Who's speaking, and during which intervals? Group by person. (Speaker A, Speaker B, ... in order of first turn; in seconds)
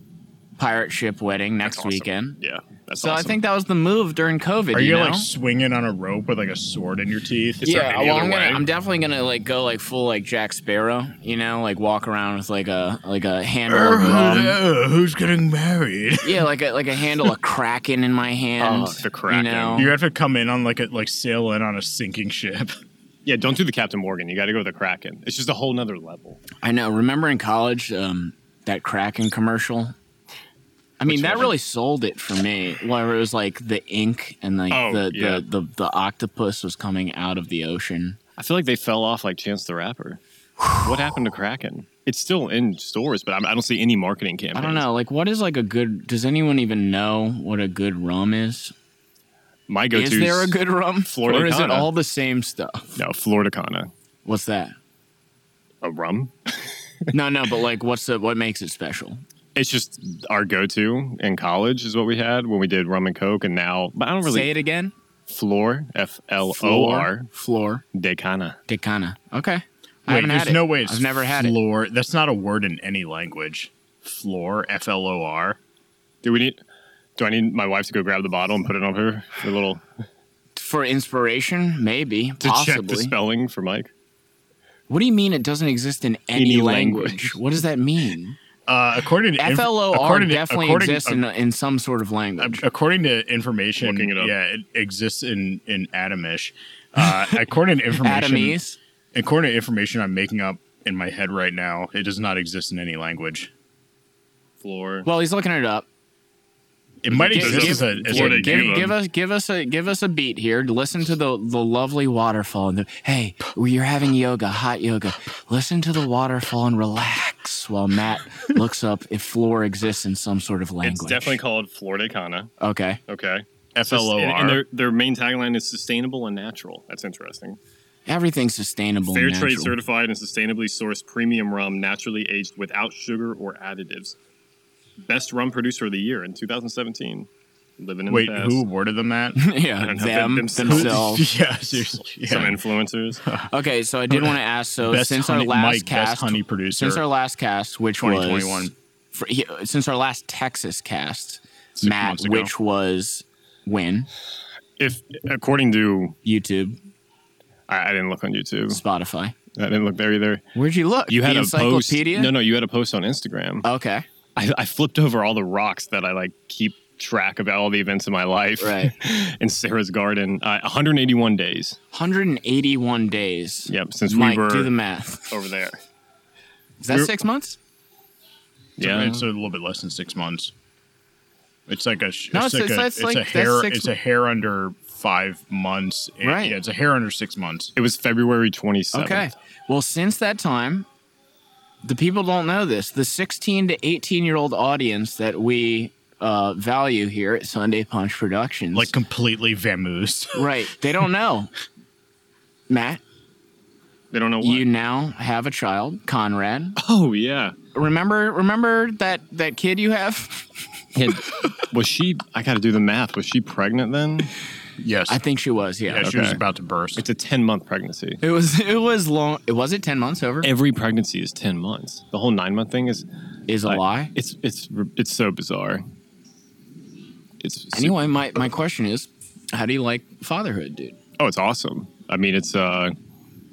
Speaker A: 0.6-2.4, 3.0-5.3, 7.6-14.6, 16.2-19.9, 26.6-29.9, 31.0-38.2, 44.5-48.7, 49.9-52.9, 54.2-54.7, 57.1-59.2, 64.2-64.9, 67.3-67.8, 68.7-71.5, 80.5-83.1, 84.9-88.4, 89.4-92.6, 98.0-98.8, 105.0-105.8, 107.1-121.4, 122.6-123.0, 128.1-129.7, 139.3-141.2, 143.5-154.1, 156.2-156.8, 158.7-159.3, 160.5-162.3, 163.6-164.0, 168.6-168.9, 171.9-175.3, 176.8-177.6, 182.3-183.9, 186.2-186.5, 188.9-190.9, 191.8-198.9, 200.3-201.5, 202.7-203.0, 204.4-206.8, 207.7-210.5, 215.1-216.1, 218.2-220.5, 223.5-224.1, 227.7-231.0
Speaker B: 1.6-3.4, 7.9-8.6, 18.6-19.9, 23.2-26.4, 31.1-31.5, 34.7-35.4, 38.4-40.2, 40.8-44.8, 49.7-50.5, 51.0-51.9, 53.0-53.9, 55.8-56.7, 59.5-64.5, 65.3-67.3, 67.9-68.6, 76.2-76.6, 77.2-79.8, 82.4-83.9, 86.3-87.4, 93.8-94.3, 104.6-105.1, 107.2-108.9, 120.8-122.5, 123.1-127.6, 129.1-134.2, 135.0-137.3, 137.8-138.6, 139.8-141.1, 142.2-143.2, 154.8-156.2, 157.7-158.8, 159.5-160.4, 161.1-163.6, 164.3-171.8, 173.7-174.7, 175.3-175.8, 178.8-179.2, 187.8-189.3, 204.1-204.7, 206.8-207.6, 210.9-214.3, 216.0-216.4, 217.0-218.2, 220.4-223.0, 223.7-225.8, 227.4-227.9, 231.2-232.9
Speaker C: 4.7-8.5, 13.7-16.5, 19.8-22.8, 66.6-67.1, 70.1-75.6, 88.7-91.2, 92.4-98.6, 99.1-103.5, 107.0-108.9, 123.7-124.6, 138.1-139.4, 140.7-142.6, 144.1-147.0, 148.0-148.7, 151.7-152.5, 178.8-180.5, 181.7-187.7, 198.7-200.4, 214.8-215.2, 215.9-217.1